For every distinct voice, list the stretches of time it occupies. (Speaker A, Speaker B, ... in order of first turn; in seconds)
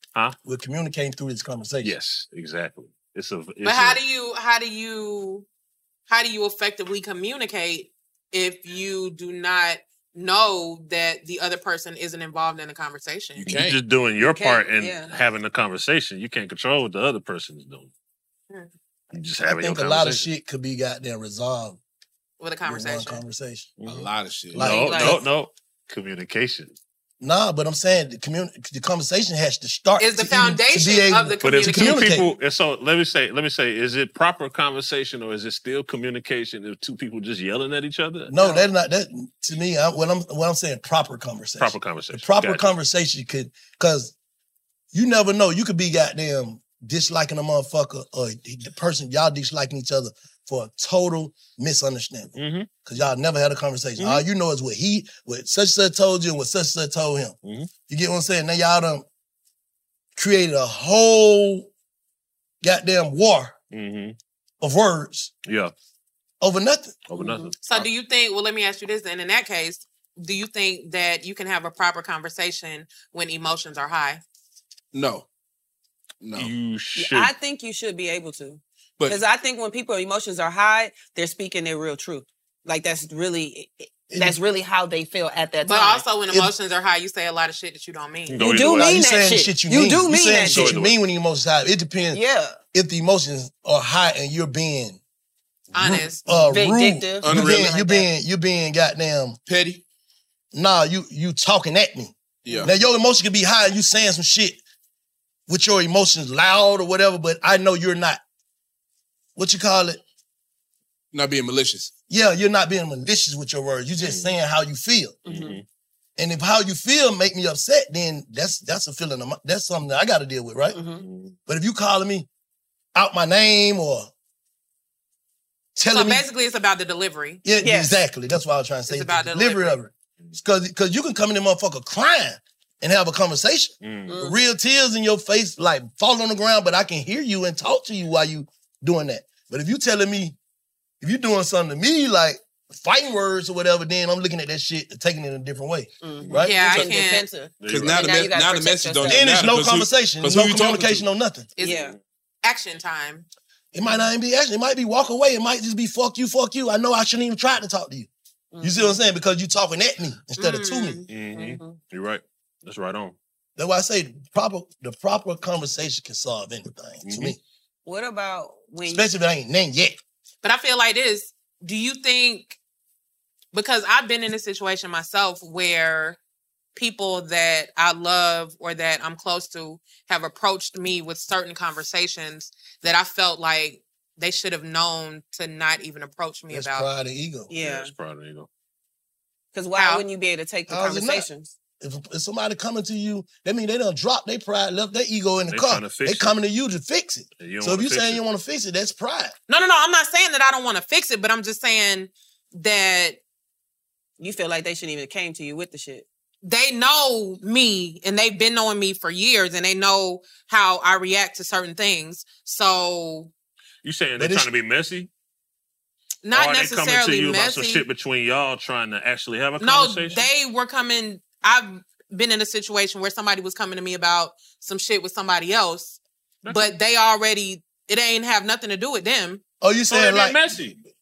Speaker A: 0.4-1.9, 19.4-21.8, 22.6-23.7, 24.5-25.2, 27.2-32.3, 38.3-44.1, 44.9-57.4, 57.9-59.0, 60.1-61.7, 62.6-63.5, 64.6-65.3, 66.4-67.0, 84.1-84.4, 88.7-92.2, 92.7-95.0, 95.7-99.4, 100.5-104.6, 105.5-108.2, 109.3-110.0, 112.1-115.2, 116.2-120.8, 121.5-122.3, 122.9-124.1, 125.8-126.2, 127.4-140.3, 141.0-146.6, 149.1-151.5, 153.7-158.1, 158.6-161.0, 163.6-167.4, 168.8-170.0, 186.5-187.5, 190.7-191.3, 191.8-199.3, 214.2-214.5, 229.6-230.4
Speaker B: 1.8-4.0, 13.4-17.9, 19.1-20.3, 23.8-26.7, 31.4-38.3, 41.6-42.7, 52.4-52.7, 54.0-54.2, 57.4-57.7, 63.7-64.2, 65.5-65.7, 67.1-67.9, 76.3-77.3, 88.3-89.0, 90.4-91.0, 114.0-114.3, 115.2-115.6, 121.0-121.3, 133.8-134.1, 147.6-148.0, 161.1-163.2, 167.0-167.3, 187.6-188.5, 195.5-196.3, 197.4-198.2, 213.8-215.1, 216.3-220.2, 226.4-226.7, 229.9-230.8
Speaker C: 3.6-5.5, 6.1-13.4, 22.4-23.2, 30.0-32.1, 67.6-74.2, 85.6-88.4, 95.7-96.2, 125.9-127.4, 128.9-129.8, 146.4-147.3, 151.6-151.9, 152.4-153.2, 160.4-161.1, 170.4-172.6, 173.5-176.2, 176.7-186.9, 189.8-190.0, 199.5-203.2, 206.4-213.3, 216.2-217.8, 219.6-226.0, 226.5-229.4
Speaker D: 13.3-13.8, 23.8-24.8, 74.9-75.2, 76.2-76.5, 97.2-97.7, 99.5-99.8, 102.4-102.7, 111.1-111.9, 147.7-151.1
Speaker E: 14.2-15.1, 24.6-25.2, 67.2-67.5, 76.9-86.0, 88.4-90.8, 92.1-92.6, 96.3-98.1, 115.2-115.6, 120.7-121.0, 127.6-127.9, 134.1-134.4, 146.0-149.2, 151.6-151.9, 158.5-159.0, 161.3-161.8, 167.8-169.1, 187.5-187.9, 189.5-191.5, 204.2-206.1